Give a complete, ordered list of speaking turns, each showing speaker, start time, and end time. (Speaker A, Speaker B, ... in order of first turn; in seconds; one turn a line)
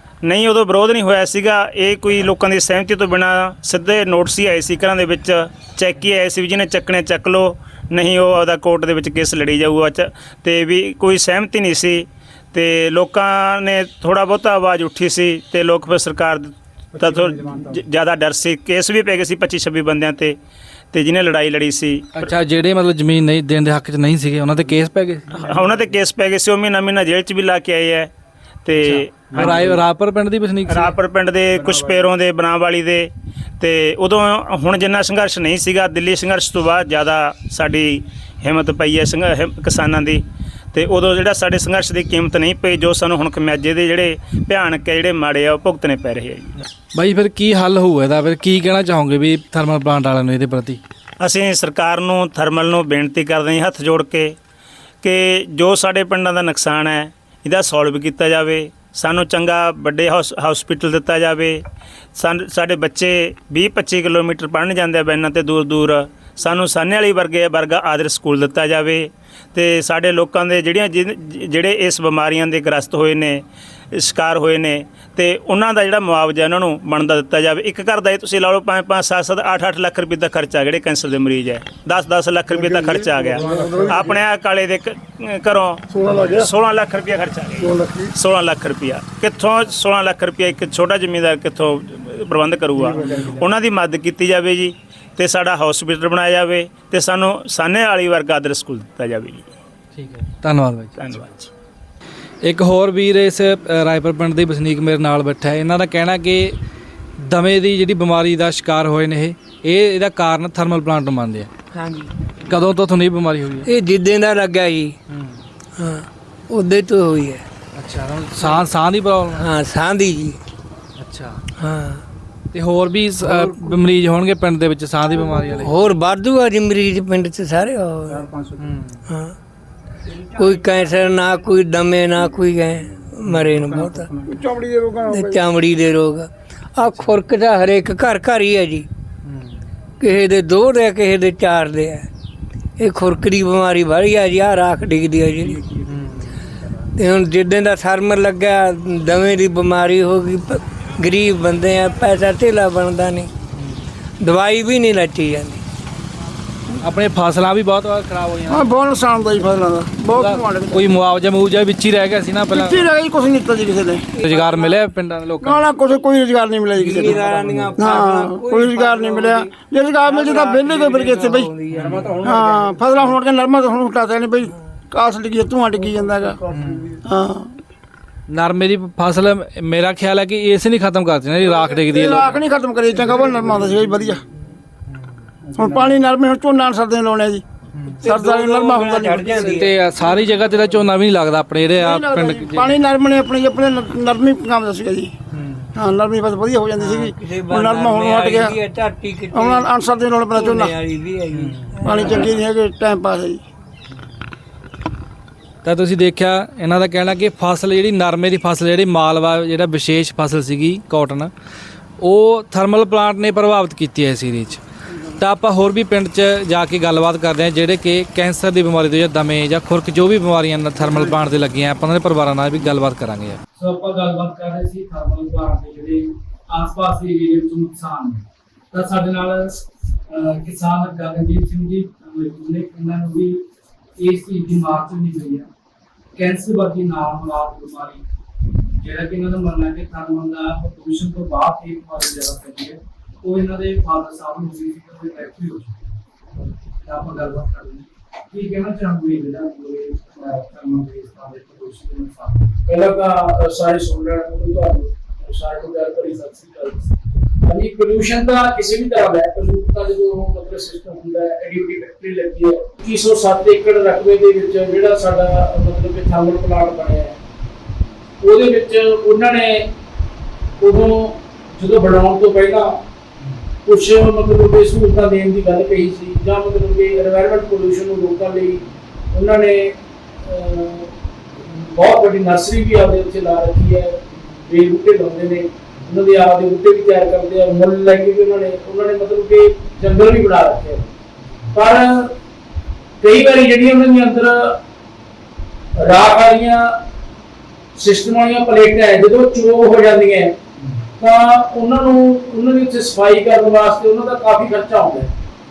Speaker A: 0.2-20.4
Speaker A: 20.9-22.2
Speaker B: 22.1-25.5
Speaker A: 25.3-28.1
Speaker A: 28.6-29.8
Speaker B: 28.8-30.9
Speaker A: 30.7-40.2
Speaker A: 40.7-46.6
Speaker B: 46.9-50.8
Speaker A: 51.2-54.3
Speaker A: 55.0-61.6
Speaker A: 62.1-73.4
Speaker A: 74.0-99.5
Speaker C: 82.5-84.1
Speaker C: 86.0-86.4
Speaker C: 87.7-88.1
Speaker B: 99.9-101.0
Speaker A: 101.0-101.5
Speaker B: 102.4-106.5
Speaker B: 107.2-111.5
Speaker D: 111.7-112.1
Speaker B: 112.5-113.7
Speaker D: 113.6-115.0
Speaker D: 115.8-117.4
Speaker B: 117.8-119.5
Speaker D: 119.3-120.4
Speaker B: 121.0-121.4
Speaker D: 121.6-122.0
Speaker B: 122.5-125.8
Speaker D: 125.5-128.3
Speaker D: 129.1-129.3
Speaker D: 130.2-134.2
Speaker C: 134.3-135.4
Speaker D: 135.1-138.9
Speaker D: 140.0-142.1
Speaker D: 142.8-145.7
Speaker D: 146.9-153.3
Speaker D: 154.2-155.6
Speaker B: 156.8-158.7
Speaker C: 158.5-160.9
Speaker B: 160.1-162.8
Speaker C: 162.5-164.1
Speaker D: 164.2-164.7
Speaker B: 164.2-165.6
Speaker C: 165.4-171.5
Speaker D: 166.7-172.3
Speaker B: 171.7-172.1
Speaker C: 172.2-176.4
Speaker B: 176.5-176.8
Speaker C: 177.0-177.5
Speaker B: 178.3-182.3
Speaker C: 181.8-184.2
Speaker C: 185.5-187.4
Speaker D: 187.9-189.7
Speaker C: 188.0-189.4
Speaker B: 189.3-192.7
Speaker C: 191.8-195.1
Speaker C: 195.7-198.6
Speaker D: 196.7-199.7
Speaker C: 199.3-200.8
Speaker D: 200.3-202.3
Speaker B: 201.3-201.6
Speaker C: 201.8-203.4
Speaker B: 205.6-211.3
Speaker B: 212.0-214.6
Speaker B: 215.2-233.4
Speaker B: 234.0-235.4
Speaker B: 236.2-238.0
Speaker B: 238.7-245.8
Speaker B: 246.8-252.5
Speaker E: 252.7-256.9
Speaker E: 257.4-267.2
Speaker E: 268.2-269.7
Speaker E: 270.6-272.7
Speaker E: 273.6-290.9
Speaker E: 291.5-292.1
Speaker E: 293.0-294.6
Speaker E: 295.8-296.6
Speaker E: 297.8-300.4
Speaker E: 301.0-305.1